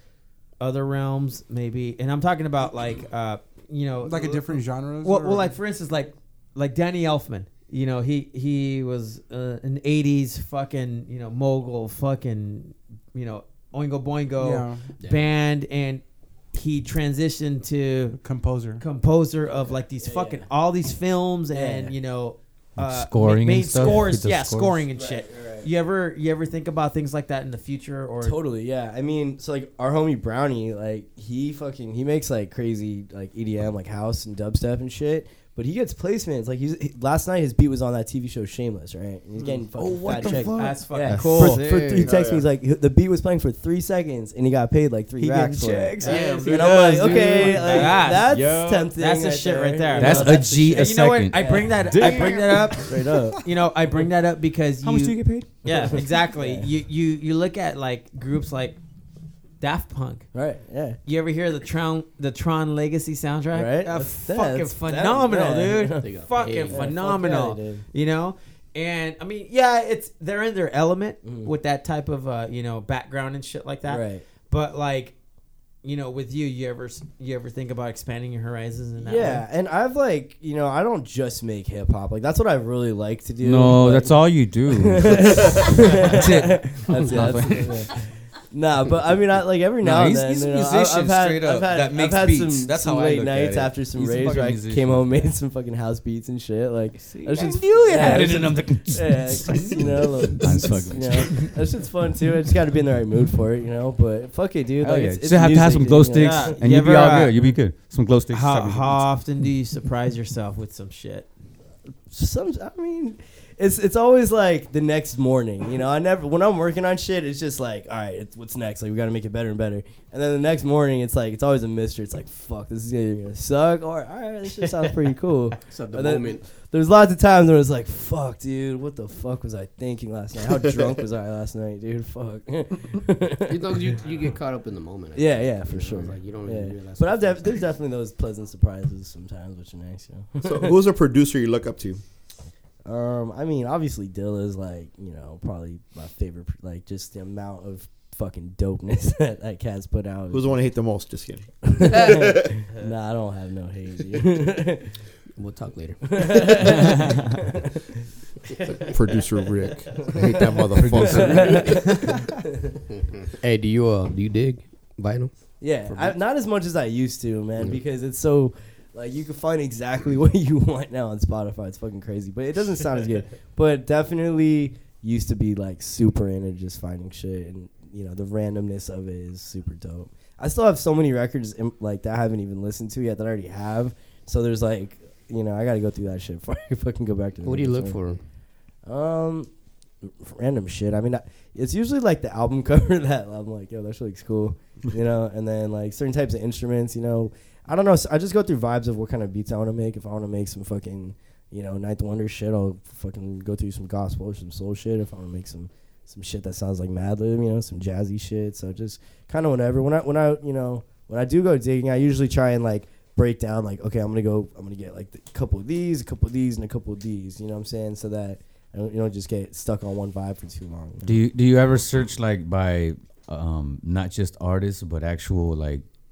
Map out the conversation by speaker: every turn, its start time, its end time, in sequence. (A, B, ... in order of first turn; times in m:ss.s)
0:00.6-0:18.2 A
0:04.0-0:05.5 B
0:14.4-0:14.8 B
0:18.2-0:18.8 B
0:18.8-0:28.4 A
0:19.4-0:20.5 C
0:21.5-0:21.9 C
0:22.8-0:24.8 D
0:23.8-0:24.1 C
0:24.9-0:25.7 C
0:28.2-0:53.4 C
0:39.4-0:42.1 D
0:40.5-0:41.6 A
0:42.0-0:42.4 E
0:45.2-0:48.9 D
0:45.9-0:46.4 A
0:46.0-0:47.6 F
0:47.6-0:48.3 A
0:49.0-0:52.9 A
0:50.0-0:52.8 D
0:53.4-0:58.8 A
0:54.8-0:55.5 D
0:55.6-0:56.7 C
0:59.6-1:00.2 A
1:00.3-1:01.0 C
1:01.0-1:15.1 A
1:03.5-1:06.1 C
1:06.0-1:06.9 F
1:06.6-1:07.8 C
1:11.2-1:11.5 C
1:13.8-1:14.2 C
1:15.8-1:19.4 A
1:19.0-1:46.6 C
1:23.4-1:27.9 D
1:29.8-1:35.3 D
1:37.1-1:41.6 D
1:44.8-1:49.1 D
1:46.2-1:47.3 A
1:48.3-1:51.3 A
1:52.1-2:13.9 C
2:05.7-2:06.4 F
2:13.4-2:17.6 F
2:15.1-2:20.8 C
2:20.4-2:22.0 E
2:22.8-2:30.6 C
2:30.3-2:31.4 E
2:31.6-2:34.9 C
2:32.0-2:32.4 E
2:35.4-2:36.6 F
2:36.1-2:37.8 C
2:38.5-2:39.2 C
2:38.9-2:41.8 E
2:40.1-2:42.7 C
2:40.1-2:41.8 D
2:40.1-2:41.8 F
2:43.4-2:45.3 F
2:45.6-3:08.0 C
3:07.4-3:08.2 F
3:08.8-3:09.5 C
3:10.0-3:41.2 C
3:41.0-3:45.8 D